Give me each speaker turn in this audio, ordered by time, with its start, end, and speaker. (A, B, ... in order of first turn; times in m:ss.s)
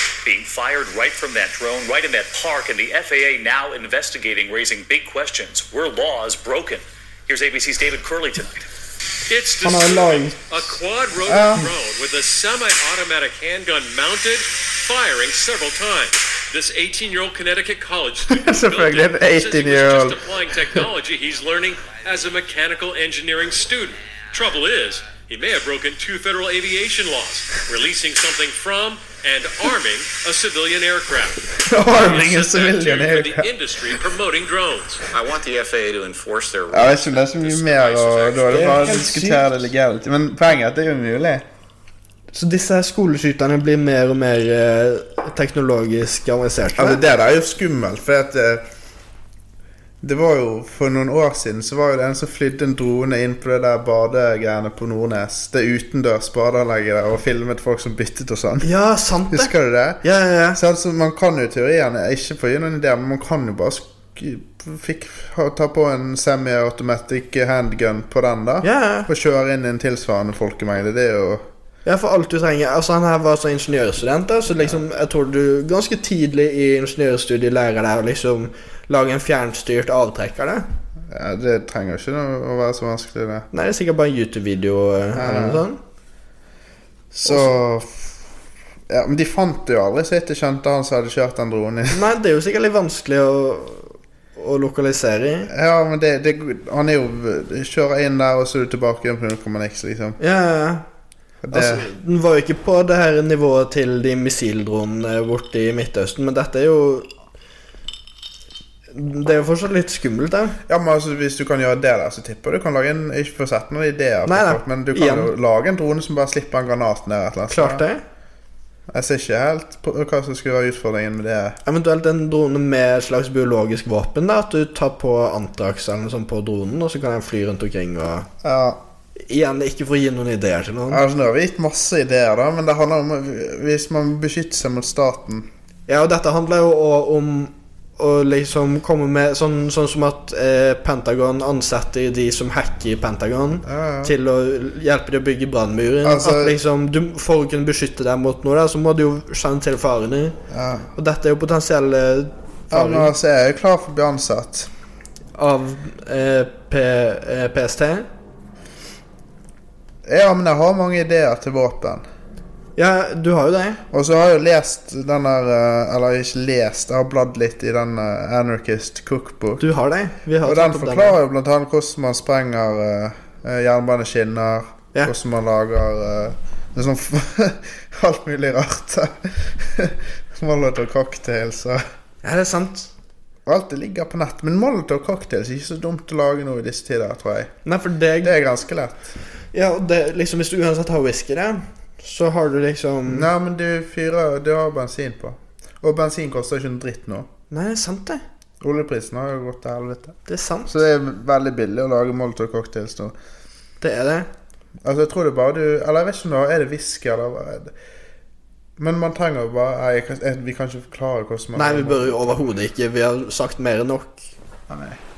0:00.2-0:08.7 A
0:09.3-0:35.1 B
0:09.6-0:10.7 C
0:11.2-0:11.7 D
0:18.2-0:20.8 D
0:31.6-0:33.5 D
0:35.1-0:37.4 E
0:36.7-0:41.5 D
0:37.4-0:39.0 B
0:38.5-0:39.6 C
0:42.3-0:47.0 C
0:46.8-0:48.6 D
0:50.0-0:58.7 D
0:58.6-1:00.6 C
0:59.3-1:00.0 D
1:00.6-1:11.5 D
1:08.6-1:09.1 C
1:11.8-1:20.7 C
1:21.1-1:23.5 D
1:23.5-1:25.8 C
1:25.2-1:25.7 D
1:27.1-1:28.1 D
1:28.9-1:32.1 D
1:31.9-1:35.5 C
1:35.5-1:40.2 D
1:40.2-1:40.8 C
1:41.4-1:41.9 D
1:41.5-1:47.1 C
1:48.9-1:50.6 C
1:50.7-1:57.8 D
1:54.3-1:55.3 C
1:57.5-1:58.0 C
1:58.9-2:01.6 D
2:01.6-2:08.3 C
2:08.4-2:08.8 D
2:09.3-2:11.0 C
2:10.9-2:15.5 D
2:15.9-2:30.4 C
2:23.6-2:24.1 D
2:26.0-2:26.6 D
2:30.5-2:30.9 D
2:31.0-2:33.1 C
2:32.7-2:34.7 D
2:35.4-2:38.1 C
2:40.0-2:42.0 D
2:42.8-2:43.8 C
2:43.9-2:49.6 D
2:49.6-2:51.2 C
2:50.4-3:01.8 D
3:02.2-3:02.9 C
3:03.5-3:07.6 D
3:07.6-3:08.3 C
3:08.2-3:09.2 D
3:09.5-3:13.3 C
3:13.1-3:17.3 D
3:17.5-3:18.2 C
3:18.6-3:23.2 D
3:20.3-3:20.8 C
3:23.8-3:24.3 C
3:24.8-3:27.7 D
3:28.8-3:32.2 D
3:31.6-3:34.3 C
3:34.7-3:35.0 D